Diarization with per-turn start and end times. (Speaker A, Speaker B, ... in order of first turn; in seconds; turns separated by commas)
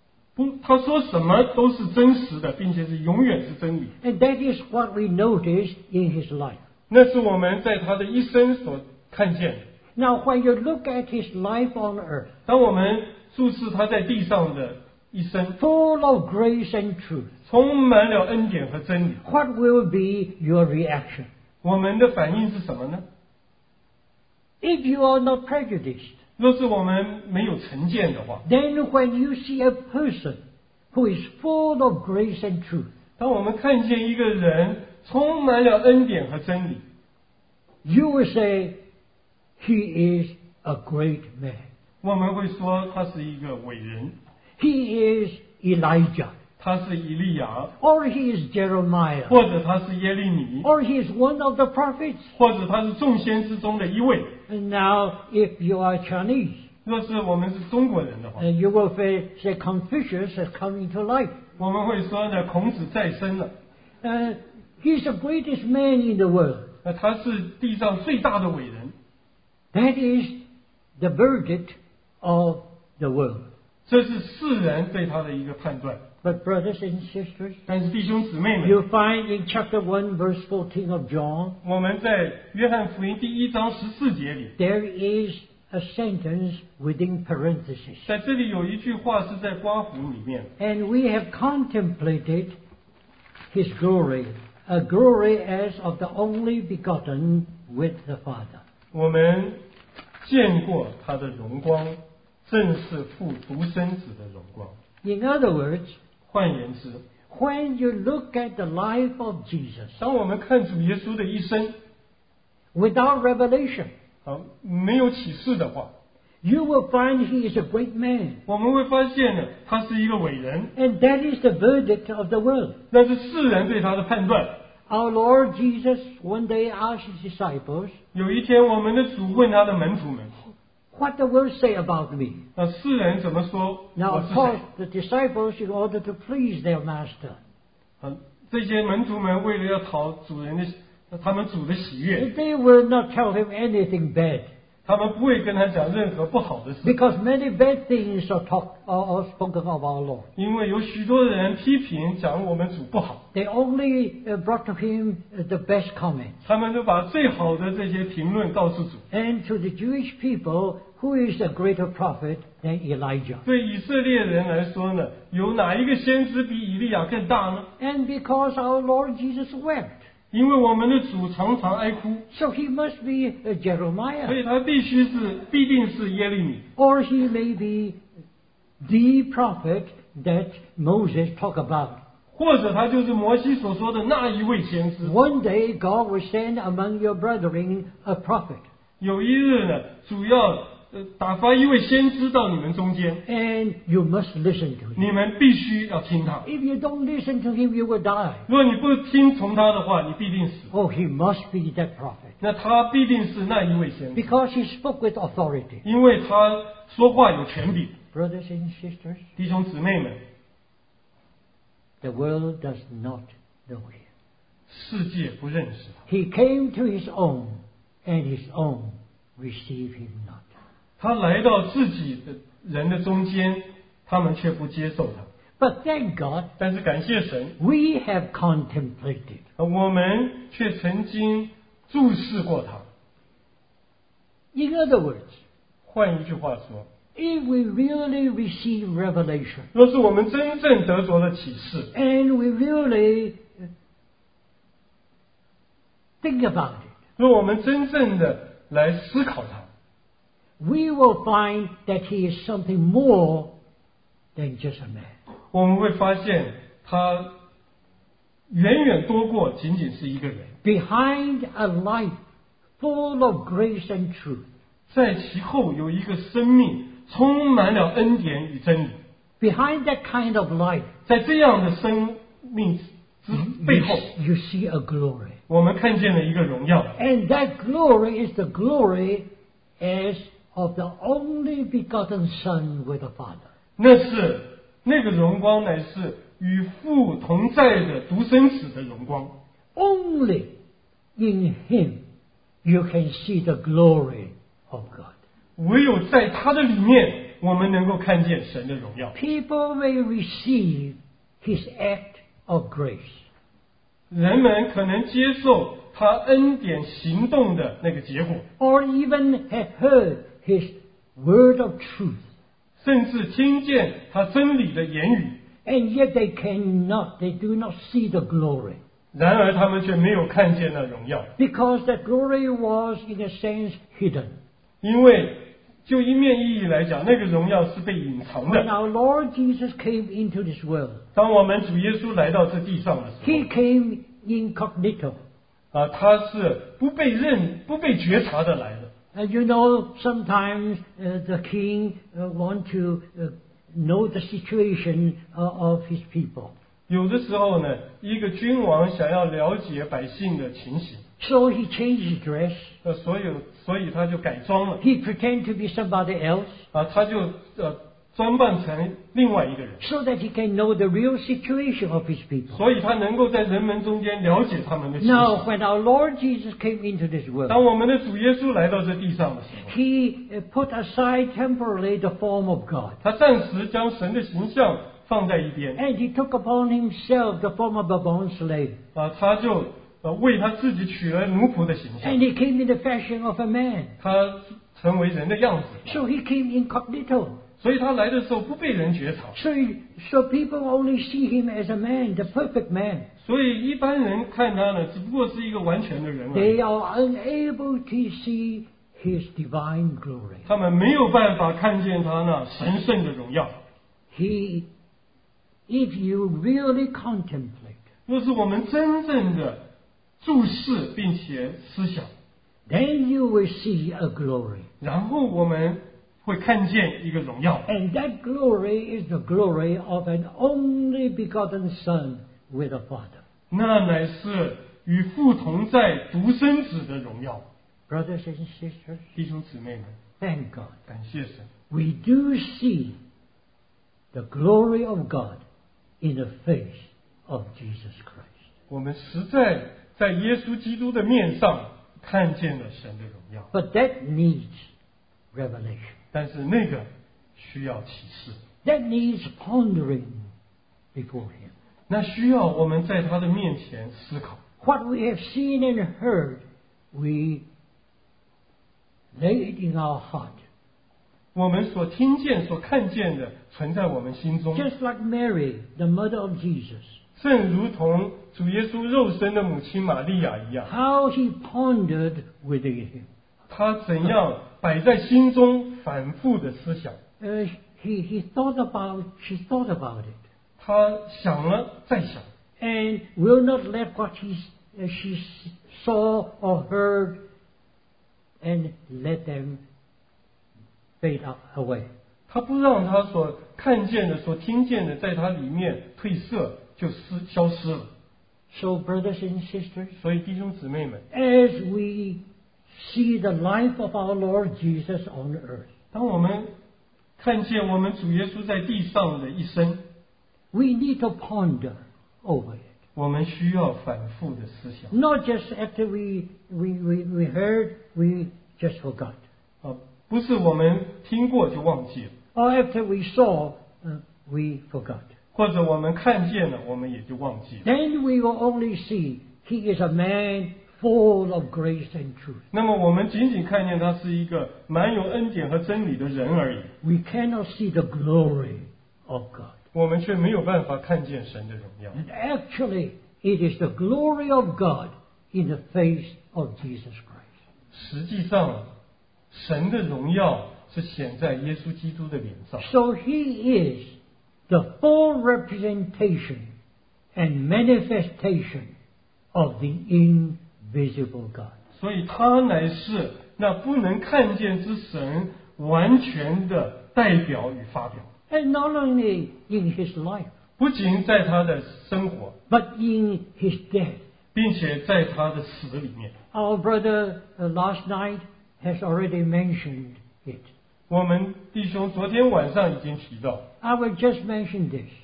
Speaker A: 0.4-3.9, Speaker B: 4.0-6.6, Speaker A: 6.9-9.7, Speaker B: 10.0-12.3, Speaker A: 12.5-15.6, Speaker B: 15.6-17.3, Speaker A: 17.5-19.2, Speaker B: 19.2-21.3, Speaker A: 21.6-23.1, Speaker B: 24.6-26.2, Speaker A: 26.4-28.4, Speaker B: 28.4-30.4, Speaker B: 30.9-32.9, Speaker A: 33.2-36.9, Speaker B: 37.9-38.8, Speaker B: 39.6-41.7, Speaker A: 42.0-44.2, Speaker B: 44.6-46.4, Speaker A: 46.6-47.7, Speaker B: 47.8-49.4, Speaker A: 49.3-50.7, Speaker B: 50.6-52.3, Speaker A: 52.4-54.4, Speaker B: 54.5-56.7, Speaker A: 56.9-58.4, Speaker B: 58.4-61.4, Speaker A: 61.6-63.5, Speaker B: 64.0-66.7, Speaker A: 66.8-69.0, Speaker B: 69.7-70.4, Speaker B: 71.0-73.5, Speaker A: 73.9-76.0, Speaker B: 76.2-77.6, Speaker A: 77.7-78.8, Speaker B: 78.6-81.6, Speaker A: 81.6-84.6, Speaker B: 84.6-88.1, Speaker A: 88.1-90.5, Speaker B: 90.6-92.5, Speaker B: 93.5-98.6, Speaker A: 98.9-99.6, Speaker A: 100.2-104.8, Speaker B: 105.0-106.0, Speaker A: 106.3-107.0, Speaker B: 107.3-110.0, Speaker A: 110.0-111.8, Speaker B: 112.7-113.9, Speaker A: 114.2-115.9, Speaker B: 116.4-118.4, Speaker A: 118.5-120.7, Speaker B: 120.8-122.8, Speaker A: 122.9-124.6, Speaker B: 124.9-128.0, Speaker A: 128.1-130.3, Speaker B: 130.9-132.5, Speaker A: 132.6-134.6, Speaker B: 133.9-137.4, Speaker A: 138.0-142.3, Speaker B: 142.2-144.5, Speaker A: 144.8-147.0, Speaker B: 146.8-150.3, Speaker A: 150.4-153.2, Speaker B: 153.3-156.4, Speaker A: 156.4-159.1, Speaker B: 159.1-163.4, Speaker A: 163.4-167.7, Speaker B: 167.8-170.0, Speaker A: 170.3-172.3, Speaker B: 172.3-174.4, Speaker A: 174.3-176.7, Speaker B: 176.8-178.0, Speaker B: 178.8-182.0, Speaker A: 182.3-185.2, Speaker B: 185.0-188.7, Speaker A: 189.0-193.2, Speaker B: 193.3-195.1, Speaker A: 195.0-196.5, Speaker B: 196.4-198.5, Speaker A: 198.5-200.7, Speaker B: 200.7-202.4, Speaker A: 202.4-204.3, Speaker B: 204.2-205.8, Speaker A: 205.8-208.0, Speaker B: 208.1-209.2, Speaker A: 209.4-210.2, Speaker B: 212.0-214.1, Speaker A: 214.7-216.0, Speaker B: 216.1-220.5, Speaker A: 221.0-225.3, Speaker B: 225.6-226.5, Speaker A: 226.6-227.6, Speaker B: 227.6-229.4, Speaker A: 229.6-232.9, Speaker B: 234.5-235.4, Speaker A: 235.9-236.9, Speaker B: 237.2-239.7, Speaker A: 239.7-241.9, Speaker B: 241.9-243.7, Speaker B: 246.2-246.9, Speaker A: 247.2-249.7, Speaker B: 250.6-253.6, Speaker B: 254.4-255.1, Speaker A: 255.5-257.3, Speaker A: 258.5-260.6, Speaker B: 260.6-262.2, Speaker B: 262.8-264.5, Speaker A: 264.9-269.0, Speaker B: 269.4-270.9, Speaker A: 271.1-274.1, Speaker B: 273.3-275.4, Speaker A: 275.5-276.9, Speaker B: 277.0-279.3, Speaker B: 279.8-283.5, Speaker A: 283.8-289.4, Speaker B: 289.8-290.6, Speaker B: 291.2-292.0, Speaker B: 292.6-295.1, Speaker A: 295.6-299.2, Speaker B: 299.1-303.2, Speaker A: 304.1-308.5, Speaker B: 308.6-312.3, Speaker A: 312.8-315.4, Speaker B: 315.6-318.8, Speaker A: 319.1-321.3, Speaker B: 321.4-324.4, Speaker A: 324.8-328.7, Speaker B: 328.4-331.0, Speaker A: 331.1-333.5, Speaker B: 333.2-335.2, Speaker A: 335.7-338.9, Speaker B: 339.1-346.5, Speaker A: 346.9-351.0, Speaker B: 351.2-352.8, Speaker A: 352.8-354.8, Speaker B: 354.8-356.6, Speaker A: 356.7-359.8, Speaker B: 359.8-362.6, Speaker A: 362.5-365.4, Speaker B: 365.0-367.6, Speaker A: 367.5-369.7, Speaker B: 369.6-373.0, Speaker A: 373.0-375.8, Speaker B: 375.8-378.8, Speaker A: 378.9-382.2, Speaker B: 382.0-384.0, Speaker A: 384.0-386.1, Speaker B: 385.9-387.4, Speaker A: 387.6-389.4, Speaker B: 389.4-393.1, Speaker A: 393.2-396.6, Speaker B: 396.3-400.5, Speaker A: 400.5-403.6, Speaker B: 404.1-404.7, Speaker B: 405.7-407.8, Speaker A: 408.1-409.6, Speaker A: 410.2-412.1, Speaker B: 412.7-414.7, Speaker A: 414.8-417.7, Speaker B: 417.7-423.2, Speaker A: 423.5-427.4, Speaker B: 427.9-429.1, Speaker A: 429.2-430.0, Speaker B: 430.2-430.8, Speaker A: 430.9-431.5, Speaker B: 431.7-433.0, Speaker B: 434.1-435.4, Speaker B: 436.0-438.3, Speaker A: 438.7-443.5, Speaker B: 443.5-444.7, Speaker B: 445.3-446.0, Speaker A: 446.1-448.4, Speaker B: 448.6-450.3, Speaker B: 450.9-451.5, Speaker A: 451.9-454.4, Speaker B: 454.6-457.5, Speaker B: 459.1-460.4, Speaker A: 461.4-464.7, Speaker B: 464.5-467.0, Speaker A: 467.2-470.7, Speaker B: 470.7-473.1, Speaker A: 473.5-477.0, Speaker B: 477.2-480.2, Speaker A: 480.6-482.3, Speaker B: 482.6-487.2, Speaker B: 488.4-489.6, Speaker B: 491.0-491.9, Speaker A: 492.3-497.9, Speaker B: 498.5-499.9, Speaker A: 500.0-501.1, Speaker B: 501.1-505.7, Speaker A: 505.9-506.5, Speaker A: 507.2-509.9, Speaker B: 510.5-512.7, Speaker A: 513.0-514.9, Speaker B: 514.9-519.2, Speaker A: 519.6-522.1, Speaker B: 522.4-525.1, Speaker A: 525.4-527.7, Speaker B: 527.6-532.4, Speaker A: 532.5-536.7, Speaker B: 536.8-539.6, Speaker A: 539.7-542.0, Speaker B: 541.9-547.3, Speaker A: 547.7-548.7, Speaker A: 549.3-552.7, Speaker B: 552.6-554.0, Speaker B: 554.5-556.5, Speaker B: 557.1-558.7, Speaker B: 559.3-561.6, Speaker A: 561.8-568.1, Speaker B: 568.3-570.3, Speaker A: 570.6-572.4, Speaker B: 572.5-574.0, Speaker A: 574.3-576.1, Speaker B: 576.3-580.5, Speaker A: 580.9-583.5, Speaker B: 583.6-585.0